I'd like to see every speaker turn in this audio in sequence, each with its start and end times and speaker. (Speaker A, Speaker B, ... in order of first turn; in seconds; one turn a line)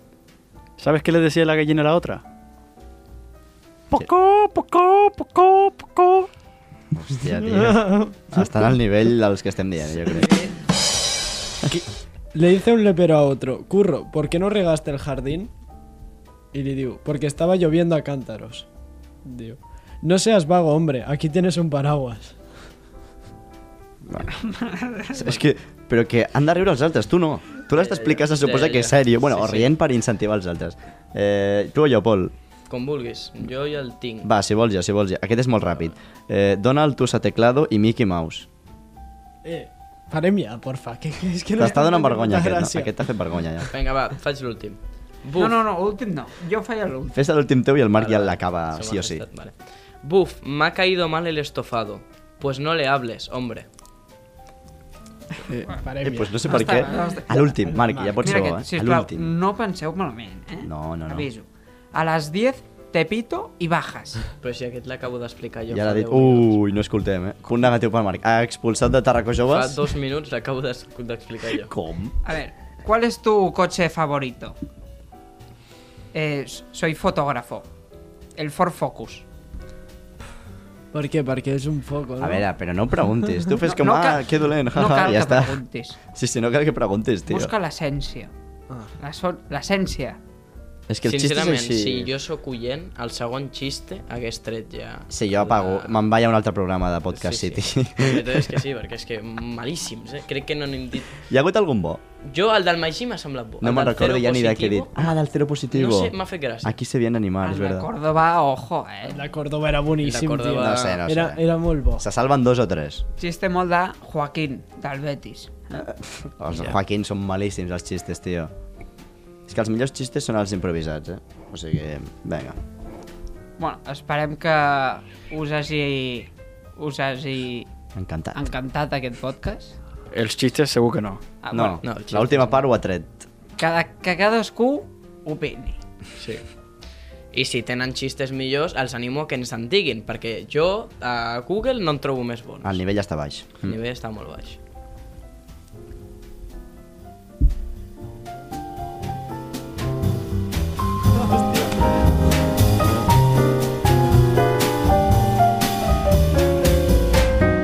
Speaker A: 0.8-2.2
Speaker A: 3.9-6.3
Speaker B: 6.9-10.3
Speaker C: 7.5-8.2
Speaker C: 11.7-15.5
Speaker C: 16.5-18.7
Speaker C: 19.2-22.4
Speaker B: 24.1-24.4
Speaker D: 24.4-25.2
Speaker B: 25.1-32.3
Speaker E: 27.7-29.7
Speaker E: 32.7-34.3
Speaker B: 34.2-38.5
Speaker C: 39.4-42.9
Speaker B: 41.6-43.7
Speaker E: 43.7-45.6
Speaker D: 45.4-47.2
Speaker B: 47.1-49.2
Speaker E: 48.0-53.7
Speaker C: 55.5-58.4
Speaker B: 56.0-59.3
Speaker D: 56.5-57.3
Speaker D: 58.2-64.2
Speaker B: 60.6-61.3
Speaker E: 64.4-66.6
Speaker B: 65.7-69.8
Speaker E: 69.5-71.7
Speaker B: 71.7-72.2
Speaker D: 72.2-74.6
Speaker D: 76.1-77.7
Speaker D: 78.4-79.2
Speaker C: 80.9-82.5
Speaker B: 82.2-87.5
Speaker D: 83.7-86.0
Speaker D: 87.3-88.3
Speaker D: 89.0-90.2
Speaker B: 90.9-92.1
Speaker E: 91.0-96.0
Speaker B: 95.1-98.4
Speaker E: 97.1-101.2
Speaker B: 101.3-102.0
Speaker E: 102.2-105.2
Speaker B: 103.6-107.9
Speaker E: 105.7-106.8
Speaker D: 107.4-109.2
Speaker C: 109.1-112.1
Speaker E: 110.0-111.0
Speaker B: 110.6-111.4
Speaker B: 112.0-113.0
Speaker D: 113.2-115.9
Speaker B: 115.8-118.5
Speaker B: 119.5-122.6
Speaker D: 123.6-127.7
Speaker B: 128.0-128.4
Speaker D: 128.3-129.8
Speaker A: 130.1-131.2
Speaker D: 131.4-131.8
Speaker B: 131.5-133.2
Speaker E: 131.8-132.7
Speaker D: 133.6-135.8
Speaker E: 136.2-136.4
Speaker E: 137.3-142.8
Speaker B: 142.6-143.8
Speaker E: 143.6-144.6